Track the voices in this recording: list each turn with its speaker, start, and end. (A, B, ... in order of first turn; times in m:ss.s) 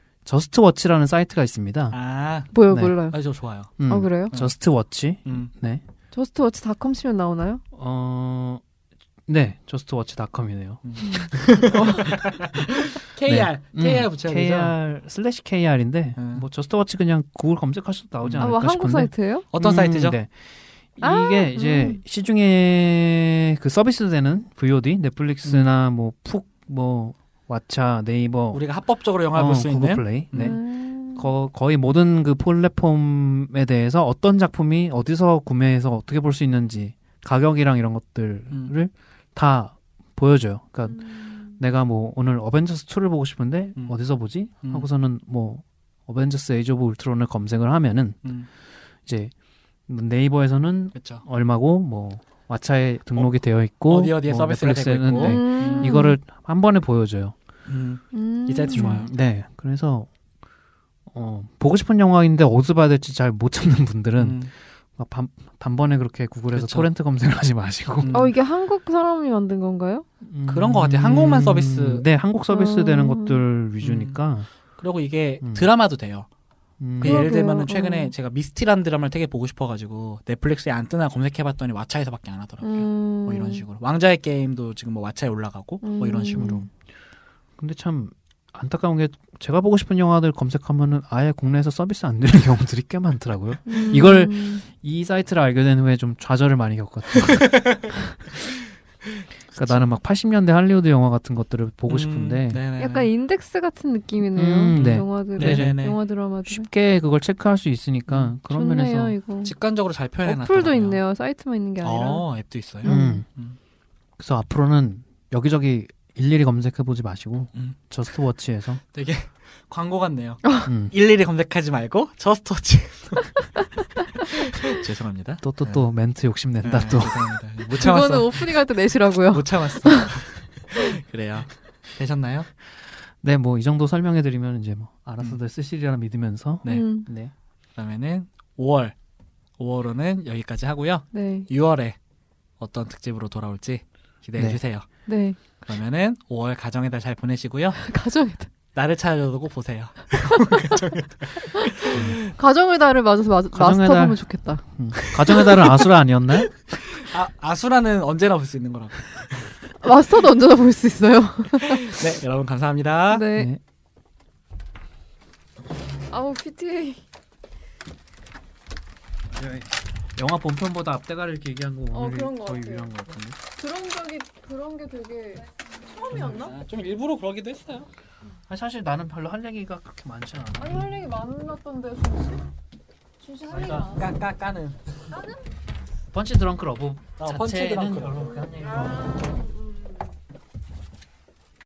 0:00.2-0:02.0 A
0:01.9-0:02.6 B
0:02.5-0:03.2 C
0:02.7-0:03.0 A
0:03.1-0:03.7 B
0:03.8-0:05.8 A
0:03.9-0:04.3 C
0:05.2-0:05.5 B
0:06.1-0:07.6 C
0:07.7-0:08.6 A
0:09.3-0:11.5 A
0:10.8-0:14.7 B
0:11.0-0:12.0 C
0:13.2-0:20.4 A
0:16.2-0:16.4 B
0:18.2-0:18.5 B
0:18.4-0:19.5 C
0:19.5-0:20.2 B
0:20.9-0:28.6 A
0:21.0-0:22.0 C
0:25.4-0:25.7 B
0:28.5-0:30.6 B
0:29.3-0:30.6 A
0:30.4-0:31.3 C
0:31.1-0:48.2 A
0:48.2-0:48.5 B
0:49.0-0:49.3 A
0:49.9-0:57.3 A
0:50.9-0:51.2 B
0:53.1-0:56.0 B
0:55.1-0:56.2 C
0:57.6-0:59.1 B
0:58.1-0:59.0 C
0:58.7-1:00.1 A
1:01.1-1:08.2 A
1:04.2-1:04.5 B
1:06.5-1:06.9 B
1:08.0-1:08.3 B
1:08.1-1:10.0 C
1:10.2-1:14.5 A
1:10.5-1:12.0 B
1:12.5-1:13.4 C
1:13.8-1:14.2 B
1:14.8-1:16.3 B
1:15.4-1:15.7 A
1:16.8-1:17.3 A
1:17.0-1:26.7 B
1:17.0-1:18.1 C
1:22.6-1:23.6 C
1:25.8-1:26.7 C
1:26.4-1:26.6 A
1:27.6-1:37.5 A
1:33.7-1:34.6 C
1:39.5-1:39.9 B
1:39.5-1:42.6 A
1:41.9-1:43.1 B
1:42.8-1:46.7 C
1:44.3-1:45.8 A
1:44.7-1:46.0 B
1:46.4-1:49.2 A
1:48.1-1:48.3 B
1:48.5-1:49.5 C
1:49.4-1:51.0 B
1:50.2-1:52.2 C
1:51.8-1:53.6 B
1:52.8-1:53.2 C
1:52.8-1:53.2 A
1:54.2-1:58.8 A
1:58.9-2:03.4 B
2:00.6-2:00.9 A
2:04.1-2:05.9 B
2:05.4-2:07.4 A
2:06.6-2:08.7 B
2:07.8-2:10.1 C
2:09.3-2:12.5 B
2:13.2-2:17.3 A
2:16.6-2:16.9 B
2:16.6-2:17.1 C
2:17.8-2:18.9 B
2:19.6-2:22.0 B
2:21.1-2:21.5 C
2:22.6-2:24.9 B
2:24.4-2:24.6 A
2:25.1-2:25.4 C
2:25.6-2:27.8 B
2:27.8-2:28.5 C
2:28.7-2:32.3 B
2:31.6-2:34.6 C
2:31.9-2:32.2 A
2:33.5-2:36.5 A
2:35.1-2:35.8 B
2:36.9-2:39.5 B
2:39.8-2:42.0 C
2:41.6-2:43.3 B
2:43.1-2:43.5 C
2:43.3-2:43.6 A
2:46.1-2:47.0 C
2:49.4-2:53.4 A
2:51.9-2:52.9 C
2:53.5-2:56.5 C
2:56.1-2:57.9 B
2:58.5-3:01.0 A
3:00.6-3:02.5 C
3:03.2-3:04.0 C
3:03.4-3:04.8 B
3:06.1-3:09.2 A
3:07.2-3:08.5 B
3:09.0-3:09.8 C